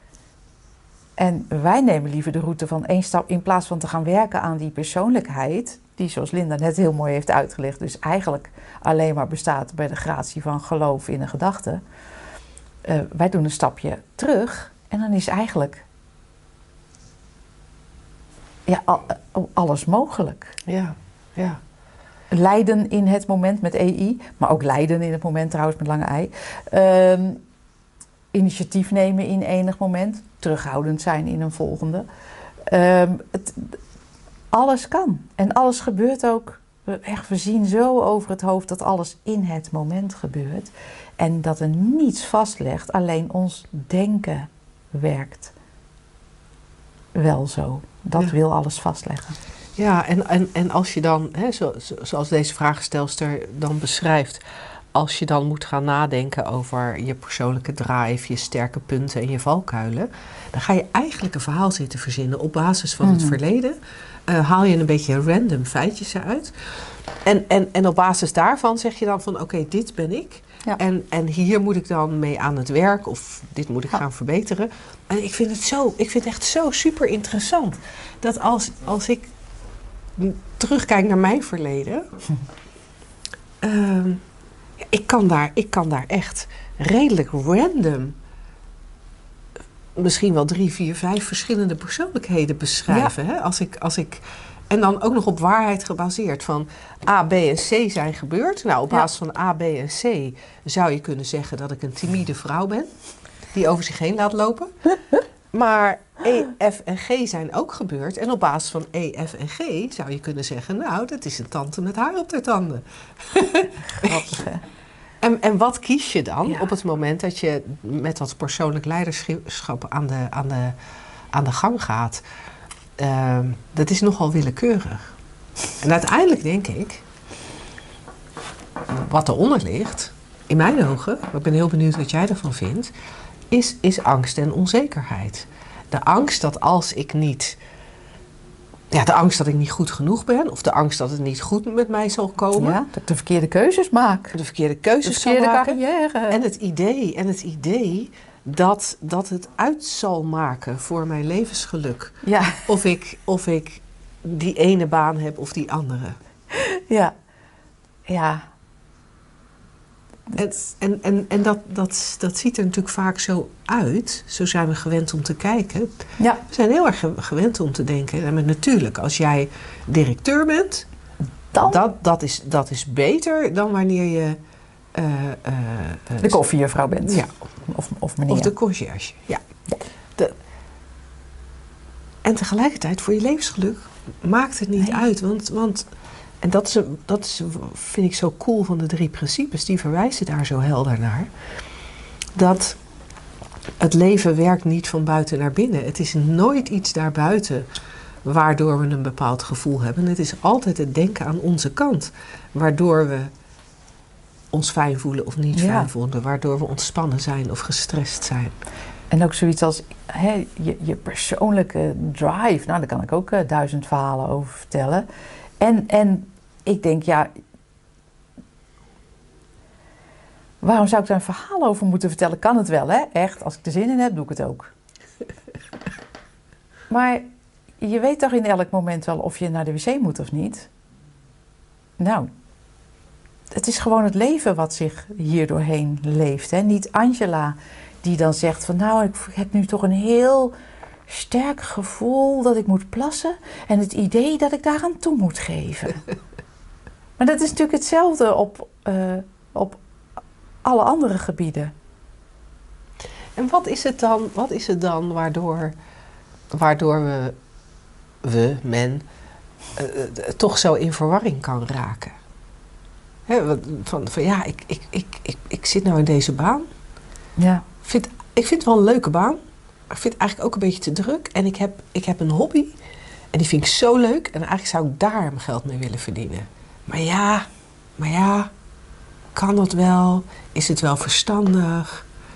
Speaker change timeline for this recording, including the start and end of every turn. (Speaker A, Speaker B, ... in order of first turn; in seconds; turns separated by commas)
Speaker A: 1.2-11.8, Speaker A: 12.8-15.8, Speaker A: 18.7-20.6, Speaker B: 20.7-21.6, Speaker A: 22.3-27.4, Speaker A: 28.3-32.0, Speaker A: 32.7-33.8, Speaker A: 34.5-45.5, Speaker A: 47.1-49.4, Speaker B: 49.8-54.4, Speaker B: 54.9-63.8, Speaker A: 63.0-63.4, Speaker B: 64.3-66.5, Speaker B: 67.2-79.3, Speaker B: 80.2-82.1, Speaker B: 83.6-84.2, Speaker B: 84.8-88.2, Speaker B: 90.0-102.9, Speaker B: 103.5-104.7, Speaker B: 105.5-114.3, Speaker A: 114.0-114.6, Speaker B: 115.2-120.8, Speaker B: 121.3-122.2, Speaker B: 123.0-125.1, Speaker B: 125.8-127.0, Speaker B: 128.9-132.9, Speaker B: 133.5-137.6, Speaker B: 138.9-142.8, Speaker A: 142.6-144.4, Speaker B: 144.3-156.2, Speaker A: 145.0-146.4, Speaker A: 152.2-152.7, Speaker A: 156.5-157.1, Speaker A: 158.1-158.4, Speaker B: 160.3-170.8, Speaker A: 171.5-171.8, Speaker B: 171.6-174.4, Speaker B: 174.9-177.3, Speaker A: 176.2-178.5, Speaker B: 178.3-179.4, Speaker B: 182.2-185.9, Speaker B: 186.4-191.3, Speaker B: 192.3-192.8, Speaker B: 193.8-197.7, Speaker B: 198.2-203.3, Speaker B: 204.5-208.6, Speaker A: 205.5-205.9, Speaker A: 209.1-215.1, Speaker A: 215.6-217.3, Speaker A: 220.6-224.7, Speaker A: 226.9-227.2, Speaker A: 227.8-230.7, Speaker A: 232.0-232.3, Speaker A: 233.5-240.5, Speaker A: 241.1-246.0, Speaker A: 247.2-249.8, Speaker A: 250.6-251.7, Speaker B: 253.3-255.7, Speaker B: 256.5-257.4, Speaker B: 258.2-259.0, Speaker B: 259.8-262.1, Speaker B: 263.3-266.6, Speaker A: 267.4-267.6, Speaker B: 267.8-269.4, Speaker B: 269.9-272.7, Speaker B: 273.3-277.5, Speaker B: 278.0-278.5, Speaker B: 279.3-282.1